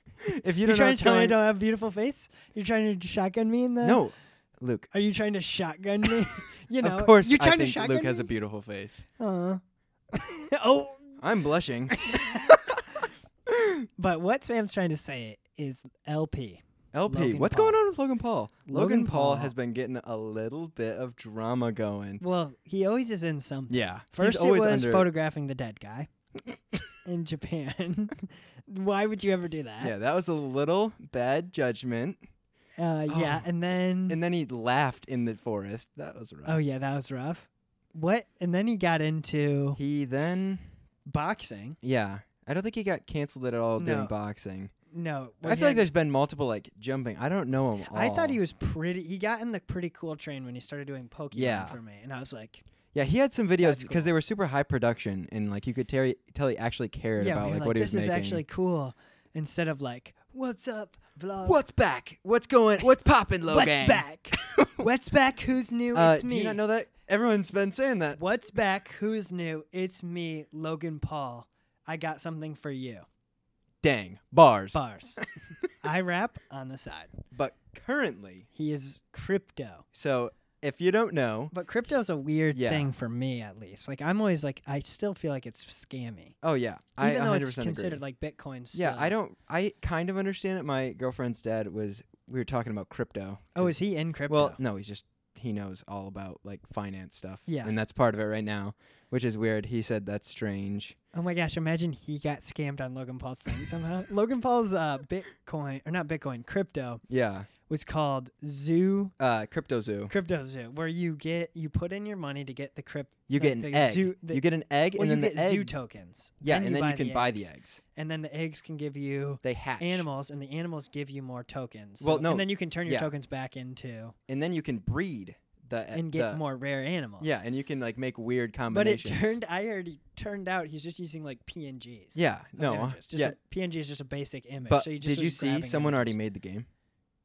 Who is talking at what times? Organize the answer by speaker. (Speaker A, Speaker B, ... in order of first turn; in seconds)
Speaker A: 0.2-1.4, 3.8-4.9, 6.8-9.1, 11.2-12.8, 13.5-13.8, 16.9-22.2, 23.7-25.1, 29.8-32.2, 33.1-33.5, 34.1-36.6, 39.8-40.7, 41.8-44.7, 45.4-48.4, 51.3-51.8, 52.9-58.4, 61.4-64.9, 65.9-68.2, 73.8-74.8, 77.3-78.5, 79.9-81.5, 82.5-82.9, 86.4-88.0, 88.8-93.7, 94.3-101.0, 107.1-107.5, 109.2-110.1, 113.3-115.8, 116.4-117.8, 119.4-120.1, 122.0-123.1, 124.3-126.4, 127.2-129.4, 132.2-133.3, 134.7-136.7
Speaker B: 0.6-4.0, 4.9-8.3, 9.2-9.6, 10.1-11.2, 11.9-12.6, 14.0-17.8, 18.7-19.5, 22.2-26.1, 27.1-29.9, 32.8-34.2, 36.5-39.8, 41.0-41.8, 43.8-44.1, 44.9-45.9, 47.8-52.6, 53.6-54.1, 57.2-61.6, 63.5-66.6, 68.2-73.0, 74.7-75.3, 75.8-77.2, 78.5-79.9, 81.5-86.3, 87.0-89.1, 93.6-94.6, 97.5-97.8, 101.1-107.0, 107.7-109.1, 110.1-114.4, 115.0-124.2, 125.9-127.4, 128.7-136.2